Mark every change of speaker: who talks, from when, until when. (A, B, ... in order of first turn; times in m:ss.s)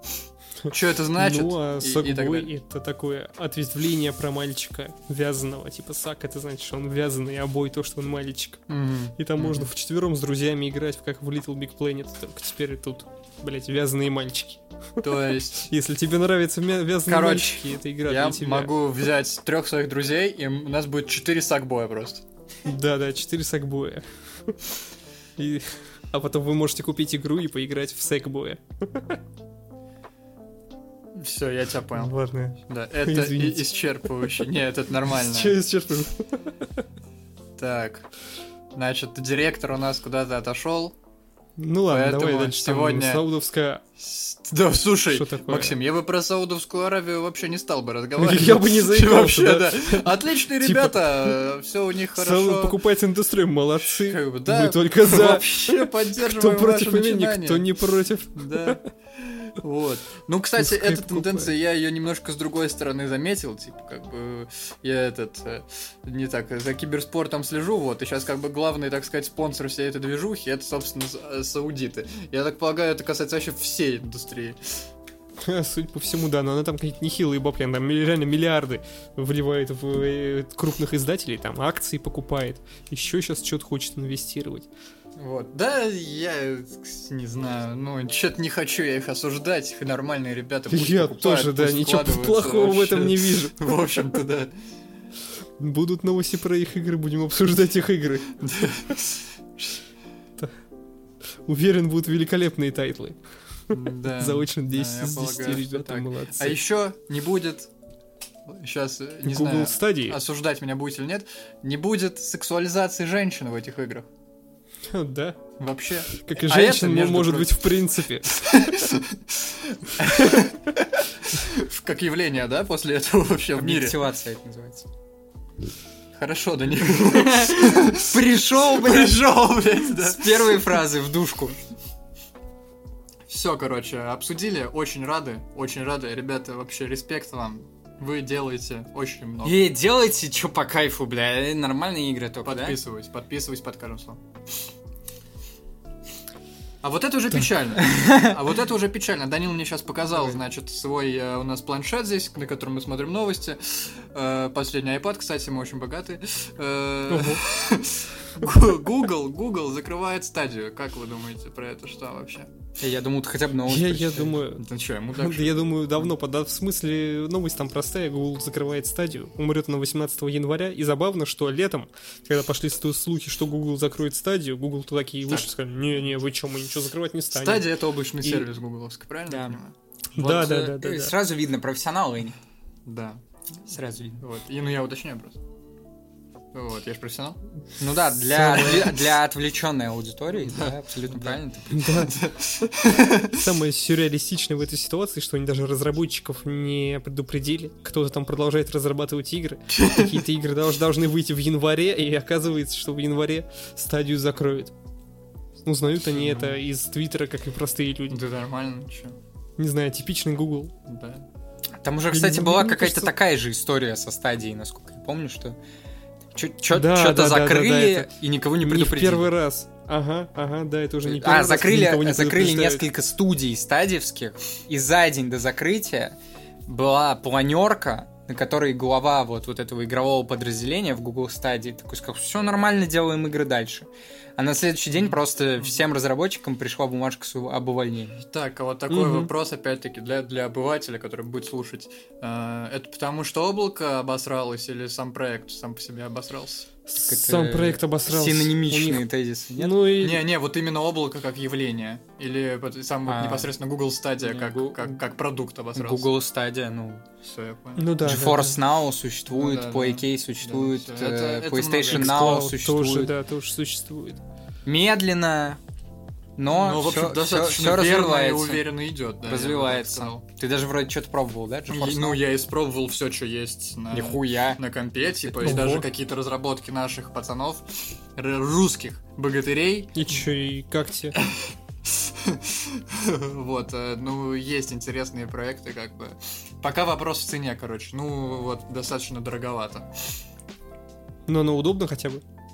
0:00.6-0:08.6 A
0:00.7-0:02.5 B
0:08.7-0:09.7 B
0:09.2-0:18.7 A
0:15.0-0:15.7 B
0:17.1-0:17.6 C
0:18.0-0:22.2 B
0:22.6-0:24.6 A
0:25.4-0:29.2 A
0:31.2-0:32.1 B
0:31.9-0:34.4 A
0:32.7-0:35.6 B
0:35.1-0:36.8 A
0:37.6-0:38.1 B
0:38.8-0:40.9 B
0:41.6-0:43.8 A
0:41.9-0:43.2 B
0:44.0-0:52.8 B
0:45.1-0:45.8 A
0:48.2-0:51.4 A
0:52.2-0:58.8 A
0:53.8-0:57.7 B
0:58.4-1:14.8 B
1:00.6-1:01.5 A
1:15.4-1:24.7 A
1:25.2-1:34.5 B
1:30.7-1:33.6 A
1:35.6-1:38.4 A
1:38.4-1:39.7 B
1:41.5-1:46.6 A
1:43.7-1:47.7 B
1:48.5-1:54.1 B
1:49.2-1:50.2 A
1:54.9-1:55.4 A
1:55.6-2:04.0 B
1:56.1-1:58.8 A
2:00.0-2:00.4 A
2:03.6-2:04.9 C
2:06.1-2:10.8 B
2:07.1-2:09.2 C
2:09.8-2:11.6 C
2:13.3-2:19.6 B
2:19.4-2:22.8 C
2:22.4-2:24.2 B
2:26.8-2:42.5 B
2:27.9-2:28.3 C
2:37.1-2:37.4 A
2:42.8-2:44.4 C
2:43.6-2:57.7 A
2:44.4-2:46.1 B
2:57.3-2:59.7 B
2:59.3-2:59.6 C
3:00.2-3:01.1 A
3:00.2-3:02.4 C
3:02.9-3:03.2 B
3:03.7-3:04.2 C
3:04.2-3:05.4 B
3:06.5-3:07.4 B
3:07.8-3:12.0 C
3:08.3-3:09.0 A
3:10.4-3:13.4 B
3:11.7-3:12.2 A
3:13.2-3:24.7 A
3:19.7-3:20.2 B
3:25.6-3:28.2 A
3:26.1-3:26.6 B
3:28.1-3:29.2 B
3:29.6-3:30.7 A
3:30.9-3:31.3 B
3:31.8-3:35.6 C
3:32.1-3:33.2 A
3:36.4-3:39.3 C
3:36.7-3:42.8 A
3:41.0-3:46.2 C
3:46.7-3:58.2 C
3:55.0-3:55.8 B
3:58.2-4:06.7 B
3:58.9-3:59.3 A
4:06.9-4:10.2 A
4:07.0-4:09.8 C
4:10.0-4:16.1 B
4:13.1-4:13.5 C
4:14.2-4:15.0 C
4:15.7-4:17.0 C
4:17.2-4:17.9 B
4:17.8-4:18.6 A
4:18.0-4:23.1 C
4:19.3-4:22.4 B
4:21.9-4:24.2 A
4:24.6-4:25.6 C
4:26.4-4:28.7 C
4:26.5-4:30.2 B
4:29.2-4:32.2 C
4:31.7-4:40.3 B
4:33.9-4:34.6 C
4:35.3-4:35.6 C
4:35.4-4:35.9 A
4:40.0-4:41.2 A
4:41.2-4:49.9 B
4:51.3-4:52.2 A